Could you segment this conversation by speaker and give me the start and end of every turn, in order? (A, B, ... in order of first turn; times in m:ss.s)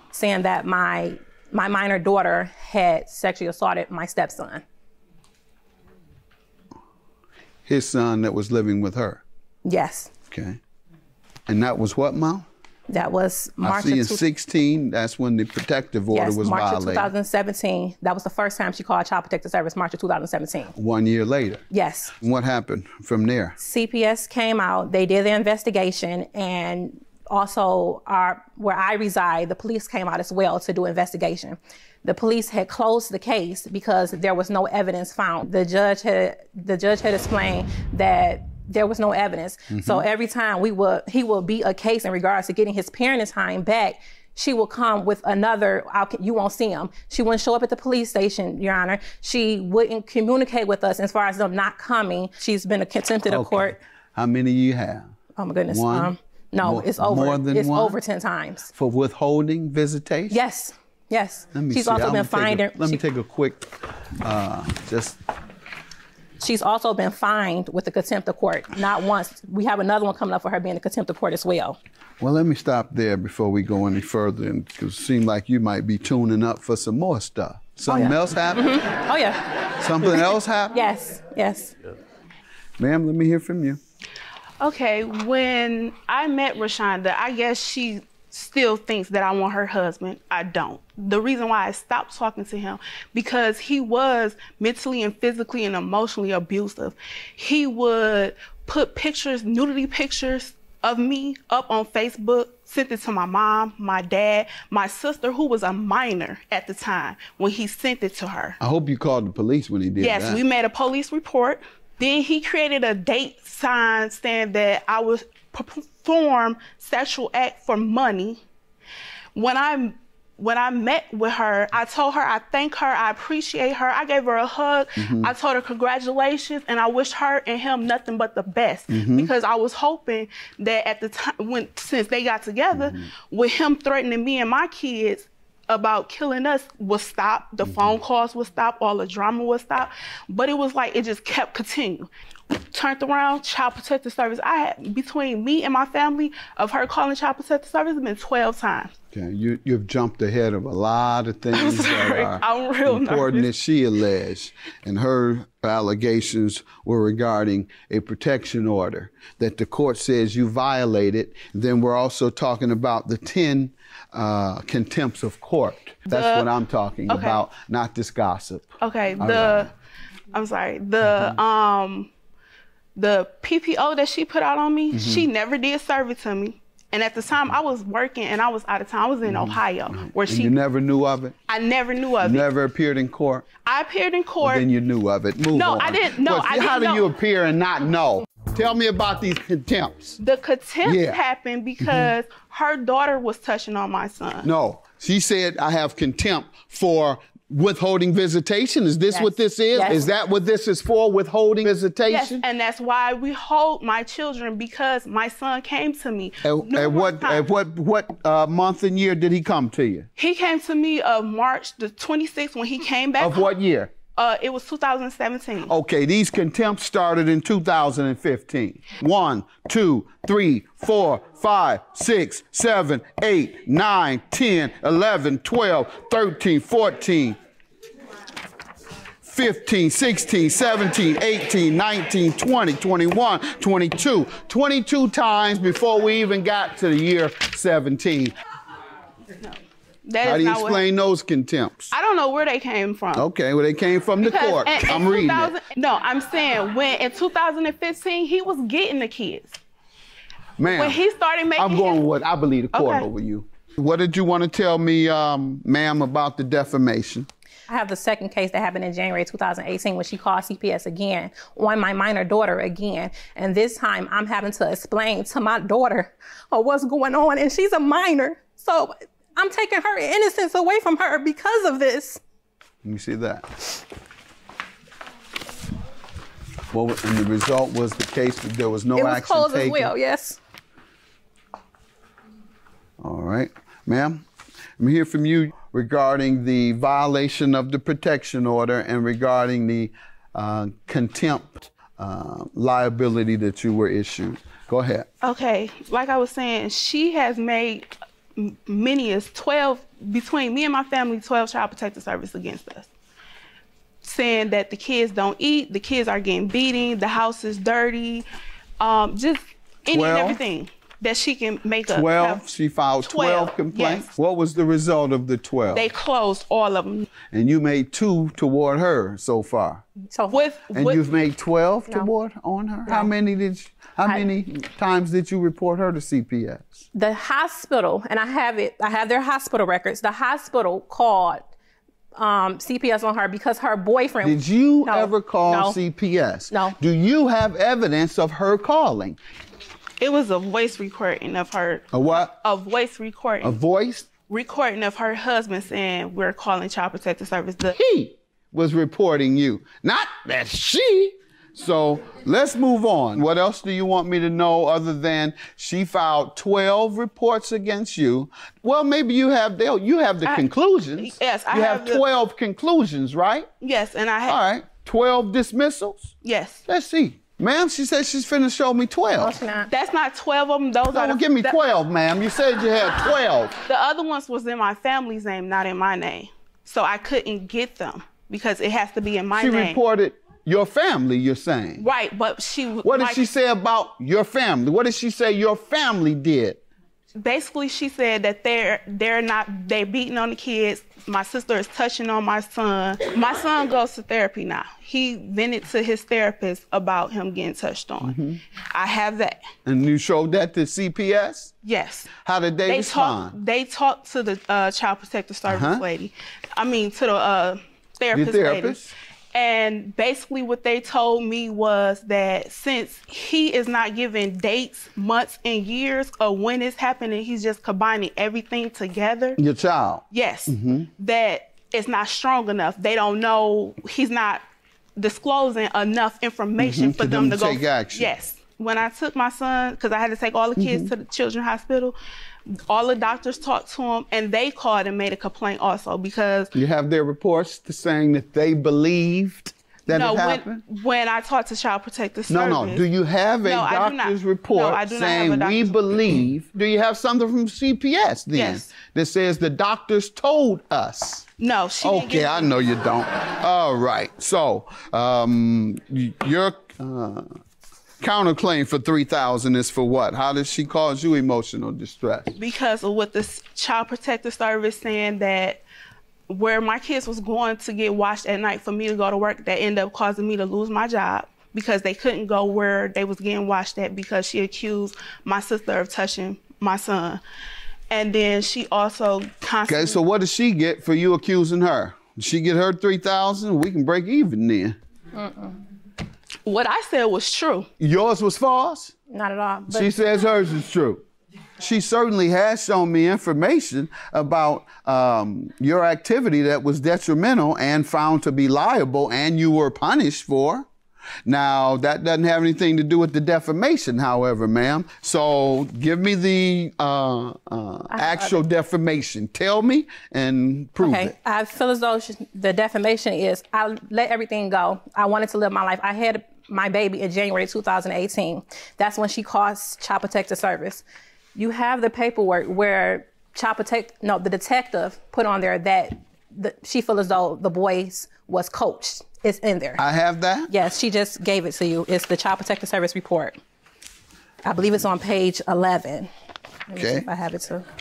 0:00.1-0:04.6 A
0:07.6-0:09.2 B
0:09.6-0:10.1 A
0:10.3-0:10.6 B
0:11.5-0:12.5 B
0:12.9-0:14.2 A
0:13.6-0:17.1 B
0:16.1-0:20.7 A
0:20.8-0:21.6 B
0:21.7-0:22.1 A
0:22.2-0:23.6 B
0:23.6-0:53.8 A
0:39.7-0:40.0 B
0:53.2-0:55.1 B
0:55.4-0:58.7 A
0:55.7-0:58.0 B
0:58.7-1:00.4 B
1:00.3-1:03.0 A
1:01.5-1:05.2 B
1:06.4-1:11.8 A
1:12.2-1:18.8 B
1:17.9-1:21.7 A
1:19.8-1:20.9 B
1:22.8-1:23.8 B
1:24.6-1:48.6 C
1:48.6-1:50.4 B
1:50.0-1:58.4 C
1:59.3-2:22.1 C
2:05.0-2:05.3 B
2:08.9-2:09.3 B
2:12.7-2:13.1 B
2:17.6-2:17.9 B
2:22.7-2:28.9 C
2:29.1-2:49.7 B
2:31.5-2:33.5 C
2:46.1-2:46.5 C
2:47.1-2:47.4 C
2:48.8-2:49.7 C
2:50.3-2:52.1 C
2:53.0-3:00.5 C
2:54.9-2:55.3 B
2:59.2-3:01.4 B
3:01.5-3:02.5 C
3:02.2-3:03.5 B
3:03.6-3:04.6 C
3:04.4-3:10.2 B
3:05.5-3:07.1 C
3:10.2-3:14.5 C
3:10.8-3:11.2 B
3:11.8-3:12.1 B
3:14.4-3:22.4 B
3:19.1-3:20.0 A
3:22.1-3:27.5 C
3:26.4-3:30.1 B
3:30.2-3:33.5 C
3:33.2-3:33.9 B
3:34.1-3:35.7 C
3:35.7-3:47.4 B
3:49.2-3:58.3 B
3:59.4-4:00.8 C
4:00.2-4:01.9 B
4:01.9-4:03.2 C
4:03.1-4:05.5 B
4:04.2-4:09.6 C
4:10.6-4:11.0 B
4:10.6-4:12.0 C
4:11.6-4:17.3 B
4:12.7-4:13.0 C
4:17.7-4:32.2 A
4:32.8-4:33.4 B
4:36.7-4:39.9 B
4:38.9-4:40.4 A
4:43.0-4:44.2 B
4:44.8-4:55.1 B
4:55.2-5:02.9 C
5:04.0-5:08.2 C
5:08.8-5:12.4 C
5:09.9-5:10.4 B
5:11.9-5:15.9 B
5:13.0-5:14.1 C
5:15.7-5:17.1 C
5:17.3-5:19.8 B
5:20.1-5:20.4 A
5:20.3-5:21.0 C
5:20.7-5:26.8 B
5:26.9-5:31.5 A
5:32.1-5:35.8 A
5:34.2-5:39.2 B
5:36.5-5:36.8 A
5:40.0-5:43.6 C
5:41.9-5:42.4 B
5:43.4-5:44.1 B
5:44.3-5:47.8 C
5:47.7-6:03.5 B
6:01.0-6:02.0 C
6:03.6-6:04.4 C
6:04.2-6:06.1 B
6:06.2-6:06.6 C
6:06.7-6:09.3 B
6:09.2-6:09.7 A
6:09.7-6:11.6 C
6:10.9-6:13.6 B
6:13.6-6:19.8 C
6:19.3-6:21.8 B
6:21.8-6:23.2 C
6:22.8-6:26.6 B
6:27.2-6:38.2 C
6:38.0-6:38.4 B
6:38.7-6:39.4 C
6:39.6-6:41.5 B
6:41.6-6:42.1 C
6:42.2-6:43.3 B
6:42.6-6:48.8 C
6:45.4-6:45.8 B
6:48.1-6:48.9 B
6:49.3-6:59.4 C
6:59.4-7:00.9 B
7:00.1-7:04.4 C
7:05.0-7:12.0 C
7:06.6-7:08.1 B
7:10.6-7:10.9 B
7:12.5-7:16.5 C
7:16.5-7:20.6 B
7:19.9-7:22.8 C
7:22.3-7:31.2 B
7:23.4-7:25.8 C
7:28.3-7:28.7 C
7:31.4-7:32.5 C
7:31.8-7:37.3 B
7:38.0-7:42.3 B
7:42.3-7:45.6 C
7:46.3-7:57.2 C
7:57.9-8:00.0 C
7:59.7-8:04.8 B
8:05.2-8:05.5 A
8:06.4-8:07.7 C
8:07.8-8:08.9 B
8:09.1-8:09.9 A
8:09.7-8:11.0 B
8:11.6-8:20.7 B
8:21.2-8:31.1 B
8:27.9-8:28.4 A
8:30.8-8:40.8 A
8:41.3-8:49.8 A
8:49.8-8:50.5 B
8:50.5-8:53.4 A
8:54.4-8:56.1 A
8:56.7-8:57.6 A
8:56.8-8:57.0 B